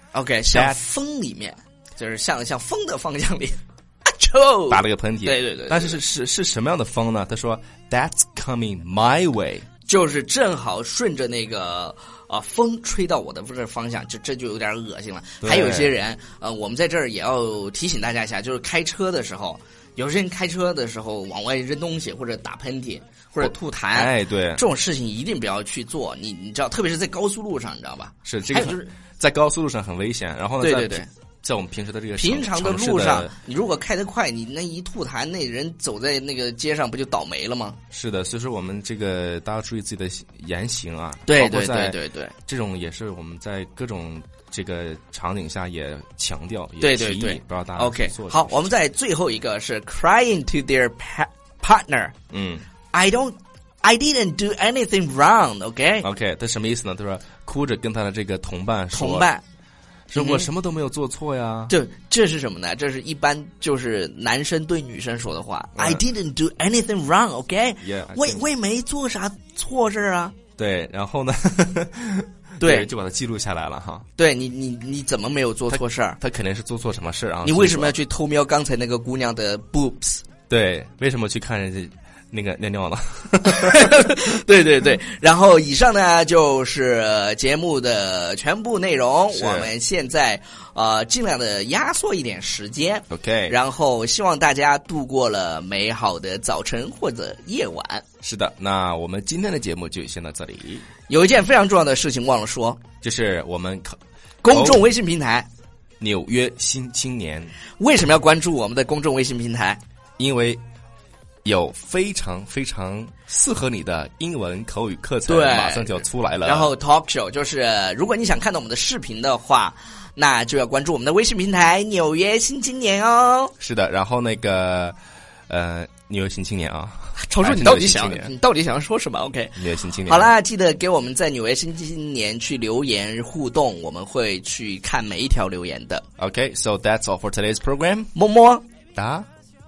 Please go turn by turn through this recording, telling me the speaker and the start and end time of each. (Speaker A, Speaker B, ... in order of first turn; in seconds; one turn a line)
Speaker A: 0.1-6.0
Speaker B: 0.5-0.8
Speaker B: 4.7-9.7
Speaker A: 9.9-28.9
Speaker B: 15.4-15.9
Speaker B: 23.4-24.6
Speaker B: 28.2-33.3
Speaker A: 30.6-31.1
Speaker A: 32.2-37.8
Speaker B: 37.9-48.7
Speaker A: 41.3-42.3
Speaker A: 46.8-52.1
Speaker B: 52.3-52.6
Speaker A: 52.9-56.1
Speaker B: 56.0-59.3
Speaker A: 58.9-59.4
Speaker B: 60.1-61.7
Speaker A: 60.2-60.5
Speaker A: 61.7-70.3
Speaker B: 65.8-66.0
Speaker B: 67.8-68.4
Speaker B: 70.6-74.1
Speaker A: 72.6-72.9
Speaker A: 74.2-76.2
Speaker B: 75.7-77.9
Speaker A: 77.4-80.2
Speaker B: 80.5-84.0
Speaker A: 83.6-98.0
Speaker B: 89.3-89.7
Speaker B: 93.1-93.5
Speaker B: 98.2-100.8
Speaker A: 101.1-102.8
Speaker B: 103.0-104.9
Speaker A: 104.4-105.5
Speaker B: 106.0-107.5
Speaker A: 107.8-109.8
Speaker B: 110.2-110.6
Speaker B: 111.5-116.7
Speaker A: 115.3-123.5
Speaker B: 123.6-125.0
Speaker B: 125.5-128.3
Speaker A: 127.2-136.0
Speaker B: 129.6-130.3
Speaker B: 136.2-138.1
Speaker A: 138.2-138.6
Speaker B: 138.9-139.3